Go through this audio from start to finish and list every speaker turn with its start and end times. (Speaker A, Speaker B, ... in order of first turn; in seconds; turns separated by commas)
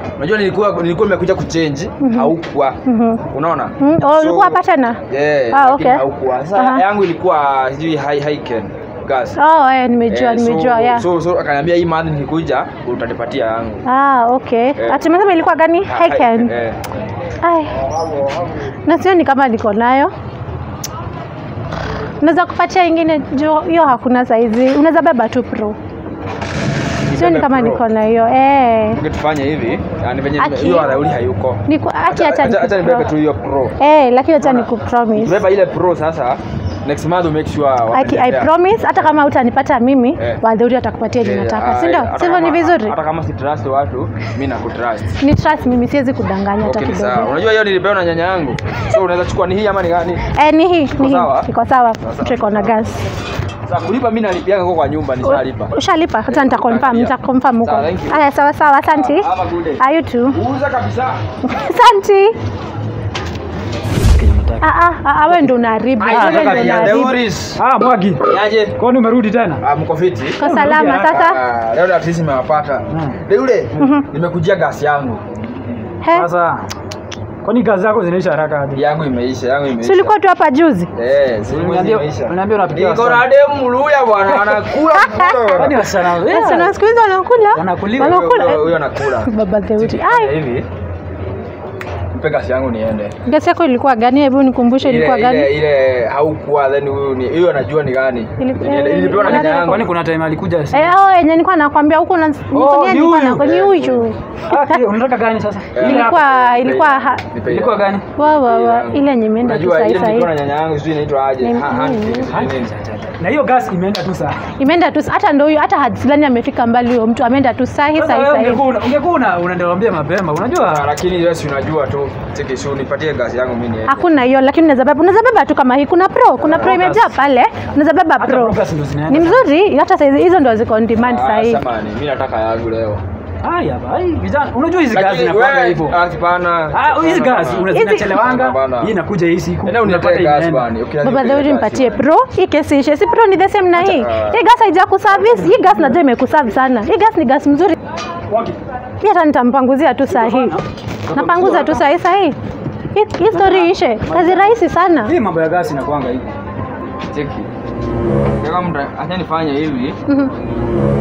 Speaker A: 0.2-9.4, Speaker B: 2.0-2.3, Speaker B: 2.8-3.2, Speaker B: 3.8-5.0, Speaker B: 5.5-6.0, Speaker B: 6.5-6.8, Speaker B: 9.3-11.1, Speaker A: 10.1-13.8, Speaker B: 13.8-16.5, Speaker A: 15.9-16.8, Speaker B: 17.4-17.8, Speaker B: 18.8-20.1, Speaker B: 22.2-25.8, Speaker A: 27.1-27.8, Speaker B: 27.1-29.0, Speaker A: 28.9-33.8, Speaker B: 30.4-31.0, Speaker B: 31.7-33.1, Speaker B: 33.8-35.4, Speaker A: 34.4-38.5, Speaker B: 37.9-42.9, Speaker A: 41.2-45.1, Speaker B: 45.2-47.3, Speaker A: 46.6-50.2, Speaker B: 50.3-53.0, Speaker A: 50.9-51.5, Speaker A: 52.0-52.8, Speaker A: 53.6-55.7, Speaker B: 55.2-59.3, Speaker A: 56.3-58.2, Speaker A: 58.9-59.8, Speaker B: 59.8-60.4, Speaker A: 60.3-61.2, Speaker B: 61.4-62.3, Speaker C: 64.1-64.6, Speaker B: 64.6-67.1, Speaker A: 66.0-67.6, Speaker C: 66.1-69.6, Speaker A: 68.2-68.8, Speaker A: 69.6-70.4, Speaker B: 70.4-71.4, Speaker C: 70.4-71.2, Speaker A: 71.1-75.2, Speaker C: 72.9-73.2, Speaker B: 73.8-74.1, Speaker B: 76.0-76.3, Speaker C: 76.1-76.7, Speaker C: 77.4-78.8, Speaker A: 78.7-80.1, Speaker B: 79.8-80.9, Speaker A: 80.9-85.8, Speaker C: 81.5-83.2, Speaker B: 84.9-85.6, Speaker C: 85.5-86.7, Speaker B: 86.2-90.3, Speaker C: 87.5-88.3, Speaker A: 88.0-90.7, Speaker A: 92.1-93.1, Speaker B: 93.2-95.5, Speaker A: 94.8-99.8, Speaker B: 98.4-99.9, Speaker C: 99.2-100.9, Speaker B: 100.7-104.8, Speaker C: 102.5-103.5, Speaker A: 103.4-104.0, Speaker C: 104.5-106.2, Speaker A: 105.7-112.7, Speaker B: 105.8-107.2, Speaker C: 107.5-108.0, Speaker B: 108.2-110.3, Speaker B: 111.4-112.3, Speaker C: 112.3-114.4, Speaker B: 114.6-118.7, Speaker C: 117.9-120.9, Speaker A: 120.6-124.0, Speaker B: 123.9-128.6, Speaker A: 126.4-126.8, Speaker C: 126.6-127.1, Speaker C: 128.2-129.4, Speaker B: 129.1-131.6, Speaker A: 130.9-133.0, Speaker C: 133.4-136.0, Speaker A: 134.9-138.9, Speaker C: 136.7-140.7, Speaker B: 137.7-138.2, Speaker A: 139.6-142.0, Speaker B: 141.0-147.8, Speaker A: 143.7-144.4, Speaker C: 145.2-146.0, Speaker C: 148.3-148.6, Speaker B: 149.0-150.6, Speaker C: 150.1-151.8, Speaker B: 151.1-152.3, Speaker B: 152.9-155.1, Speaker C: 153.3-154.5, Speaker C: 155.1-156.2, Speaker A: 157.1-157.5, Speaker A: 158.4-160.0